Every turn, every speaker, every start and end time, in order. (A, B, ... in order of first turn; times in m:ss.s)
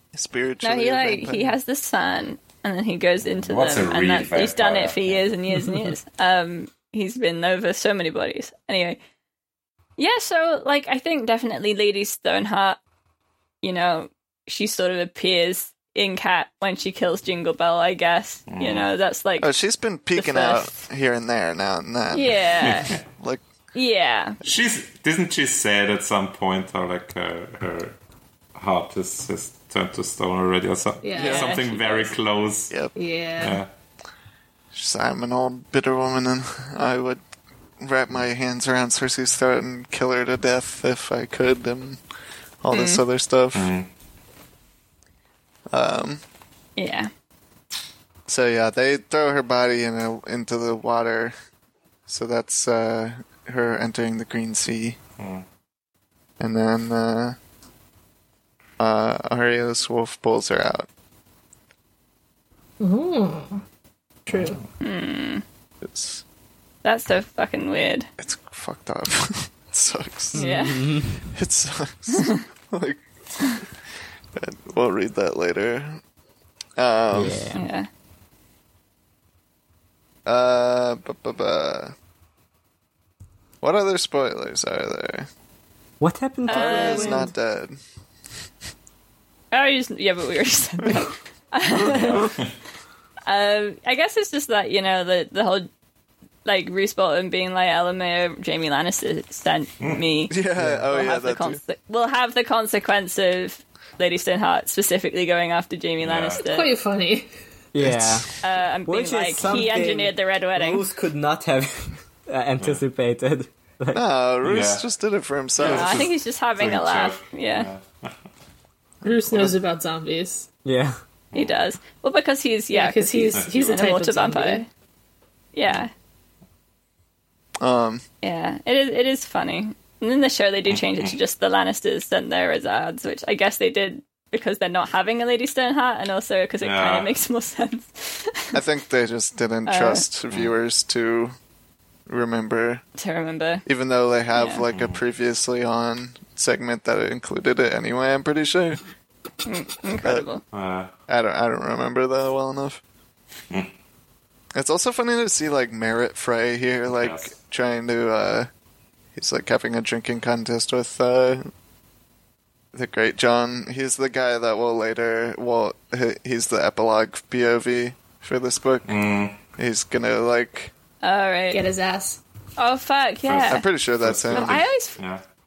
0:00.1-0:01.5 A
0:00.6-0:09.0 B
0:03.2-0:05.2 C
0:10.0-0:12.8 B
0:13.6-0:19.5 B
0:18.5-0:18.9 C
0:19.4-0:22.4 A
0:20.1-0:20.7 B
0:22.1-0:23.0 B
0:22.6-0:23.0 C
0:23.2-0:23.4 A
0:23.7-0:24.4 B
0:24.4-0:28.0 C
0:28.5-0:32.7 C
0:31.0-0:31.5 D
0:31.2-0:31.5 A
0:31.2-0:32.1 B
0:32.9-0:33.6 D
0:33.4-0:33.7 C
0:34.7-0:37.2 A
0:37.8-0:42.0 A
0:42.6-0:43.7 A
0:42.7-0:43.0 B
0:43.5-0:43.9 C
0:45.7-0:46.2 A
0:46.8-0:47.1 B
0:48.3-0:51.3 A
0:52.1-0:55.0 A
0:55.2-0:55.4 C
0:56.4-0:57.4 A
0:58.8-1:00.9 A
1:02.8-1:03.6 D
1:04.3-1:04.6 D
1:04.3-1:04.6 C
1:04.8-1:05.4 B
1:05.8-1:06.2 A
1:06.8-1:08.1 B
1:08.2-1:10.4 A
1:10.3-1:11.3 E
1:10.4-1:10.8 B
1:11.3-1:13.6 A
1:14.4-1:16.0 A
1:16.8-1:17.5 A
1:17.1-1:17.6 E
1:17.5-1:17.9 B
1:20.2-1:21.9 A
1:23.6-1:25.3 A
1:26.0-1:27.3 E
1:26.5-1:27.2 B
1:26.5-1:27.8 A
1:29.5-1:32.4 B
1:31.8-1:32.5 C
1:33.3-1:35.7 B
1:36.4-1:40.3 B
1:40.3-1:41.6 A
1:40.6-1:40.9 E
1:40.9-1:46.7 B
1:46.0-1:46.4 C
1:46.4-1:47.3 D
1:47.7-1:48.3 E
1:47.8-1:48.2 A
1:48.4-1:50.8 B
1:48.9-1:54.0 E
1:53.9-1:56.0 A
1:54.4-1:54.8 C
1:55.6-1:58.1 C
1:55.6-1:57.7 B
1:59.0-2:00.5 D
1:59.3-1:59.5 A
2:00.6-2:01.0 E
2:01.3-2:01.6 C
2:01.3-2:04.7 B
2:02.7-2:04.7 D
2:03.3-2:03.9 C
2:05.5-2:05.9 B
2:07.6-2:08.0 A
2:08.2-2:18.6 B
2:10.7-2:11.1 C
2:16.6-2:17.1 C
2:18.5-2:21.3 A
2:19.6-2:20.0 B
2:22.1-2:22.8 A
2:23.0-2:23.6 B
2:23.6-2:28.8 A
2:24.3-2:24.6 B
2:24.7-2:25.0 C
2:29.4-2:30.4 B
2:30.5-2:30.9 C
2:31.1-2:32.8 A
2:34.5-2:38.5 A
2:36.9-2:37.3 C
2:39.2-2:41.5 A
2:42.7-2:48.9 A
2:48.8-2:49.4 C
2:49.6-2:50.7 A
2:51.0-2:51.6 B
2:51.5-2:52.2 D
2:52.6-2:53.6 B
2:53.2-2:55.2 C
2:53.5-2:54.6 A
2:54.3-2:55.0 B